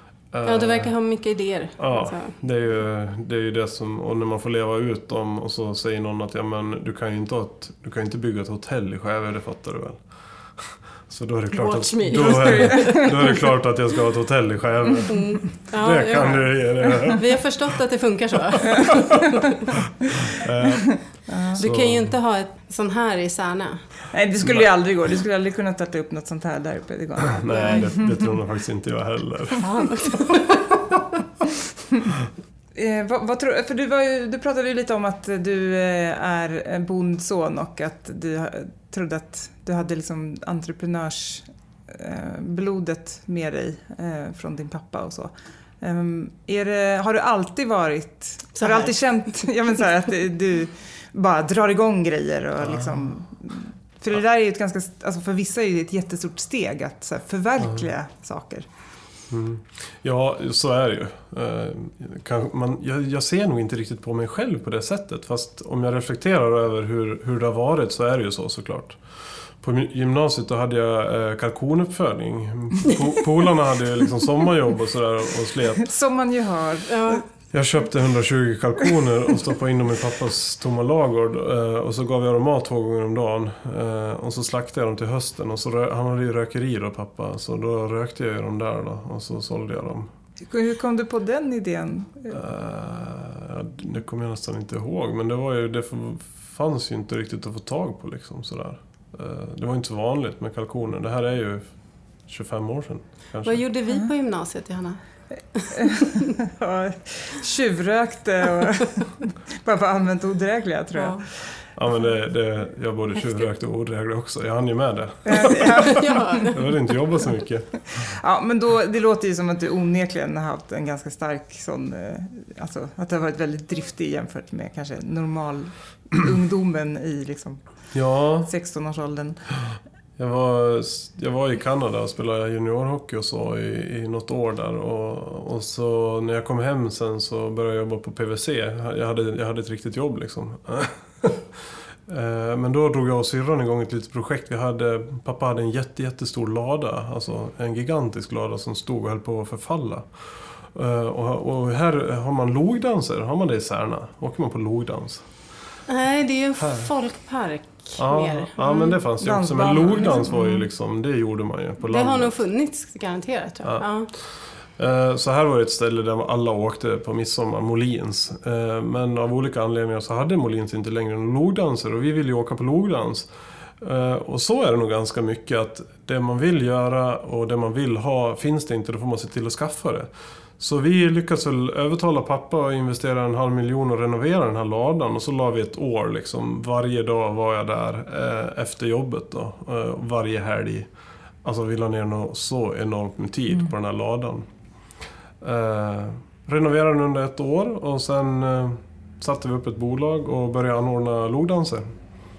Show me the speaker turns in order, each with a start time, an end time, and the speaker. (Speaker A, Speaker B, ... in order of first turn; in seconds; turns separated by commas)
Speaker A: 0.3-1.0, Speaker B: 0.5-2.4, Speaker A: 1.8-17.5, Speaker B: 11.5-13.3, Speaker C: 12.4-12.9, Speaker B: 15.1-19.4, Speaker A: 20.3-22.2, Speaker C: 21.3-21.6, Speaker B: 21.5-24.0, Speaker C: 24.1-27.9, Speaker A: 27.3-29.9, Speaker B: 27.5-27.9, Speaker B: 29.6-30.8, Speaker C: 32.8-58.7, Speaker B: 48.6-48.9, Speaker A: 52.6-53.1, Speaker A: 59.3-75.9, Speaker C: 75.8-77.2, Speaker B: 76.9-77.2, Speaker A: 77.5-90.1, Speaker C: 90.4-92.4, Speaker A: 92.3-103.6, Speaker B: 103.5-105.9, Speaker C: 105.7-111.4, Speaker B: 110.9-111.3, Speaker A: 111.8-116.0, Speaker C: 115.3-116.5, Speaker B: 115.7-116.7, Speaker A: 116.5-118.1, Speaker C: 117.9-127.6, Speaker A: 127.9-128.5, Speaker C: 128.5-129.4, Speaker A: 130.2-155.3, Speaker B: 155.9-159.0, Speaker A: 156.6-156.9, Speaker A: 158.0-162.4, Speaker C: 159.2-160.3, Speaker B: 161.8-164.1, Speaker A: 163.6-190.9, Speaker A: 191.4-194.5, Speaker A: 195.4-201.9